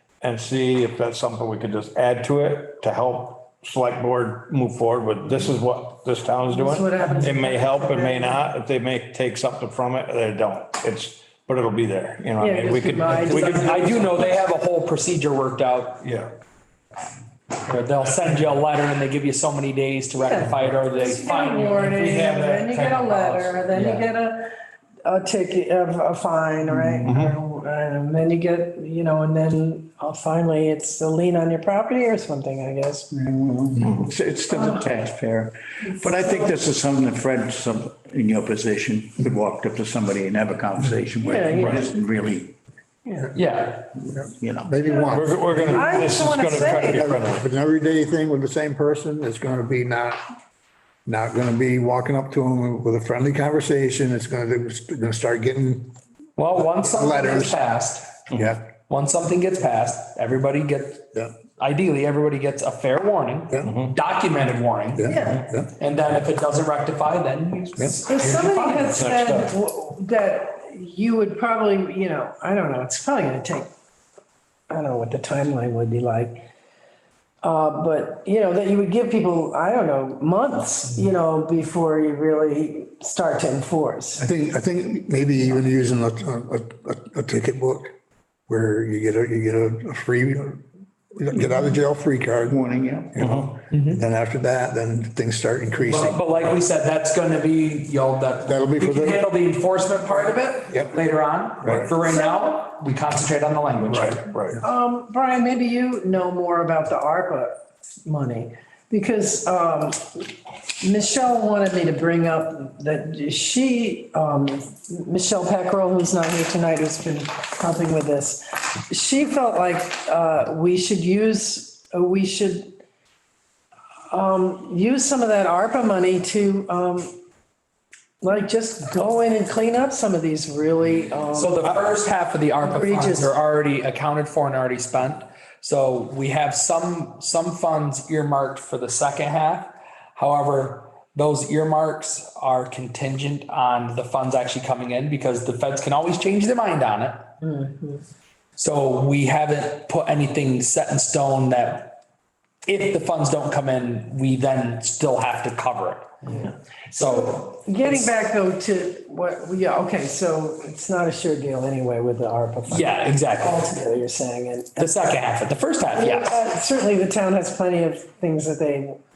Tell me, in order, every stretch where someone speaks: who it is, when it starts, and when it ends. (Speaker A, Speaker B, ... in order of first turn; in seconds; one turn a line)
Speaker A: 0.2-14.3
Speaker B: 6.5-8.5
Speaker C: 7.0-7.3
Speaker B: 12.4-14.3
Speaker C: 13.2-16.1
Speaker A: 16.0-16.3
Speaker C: 17.6-22.0
Speaker A: 18.0-18.5
Speaker B: 20.2-24.5
Speaker A: 21.9-24.1
Speaker B: 25.1-33.1
Speaker A: 27.0-27.4
Speaker D: 33.1-42.6
Speaker B: 34.5-34.8
Speaker B: 41.2-41.9
Speaker B: 43.0-43.3
Speaker C: 43.3-43.9
Speaker E: 44.0-46.1
Speaker D: 44.4-44.7
Speaker B: 44.9-47.1
Speaker A: 45.1-47.5
Speaker E: 46.8-50.2
Speaker E: 51.1-55.9
Speaker C: 56.4-58.3
Speaker E: 56.6-57.6
Speaker E: 58.3-58.7
Speaker C: 58.9-69.1
Speaker A: 63.7-64.0
Speaker E: 65.0-65.7
Speaker B: 65.1-65.5
Speaker B: 68.1-73.7
Speaker A: 68.9-69.5
Speaker B: 74.7-76.5
Speaker B: 77.4-84.2
Speaker E: 84.2-87.9
Speaker E: 88.5-90.6
Speaker E: 91.2-92.6
Speaker D: 92.5-93.5
Speaker E: 93.1-96.2
Speaker C: 93.7-94.0
Speaker C: 95.8-104.3
Speaker E: 98.4-99.2
Speaker E: 101.6-101.9
Speaker A: 103.9-104.6
Speaker B: 104.6-110.3
Speaker B: 110.8-122.8
Speaker B: 124.1-127.2
Speaker B: 128.2-131.8
Speaker C: 131.3-147.2
Speaker B: 132.6-133.3
Speaker B: 147.4-148.0
Speaker C: 148.6-152.0
Speaker C: 152.7-158.1
Speaker B: 157.5-164.9
Speaker C: 162.7-163.7
Speaker C: 164.8-166.4
Speaker B: 165.9-169.0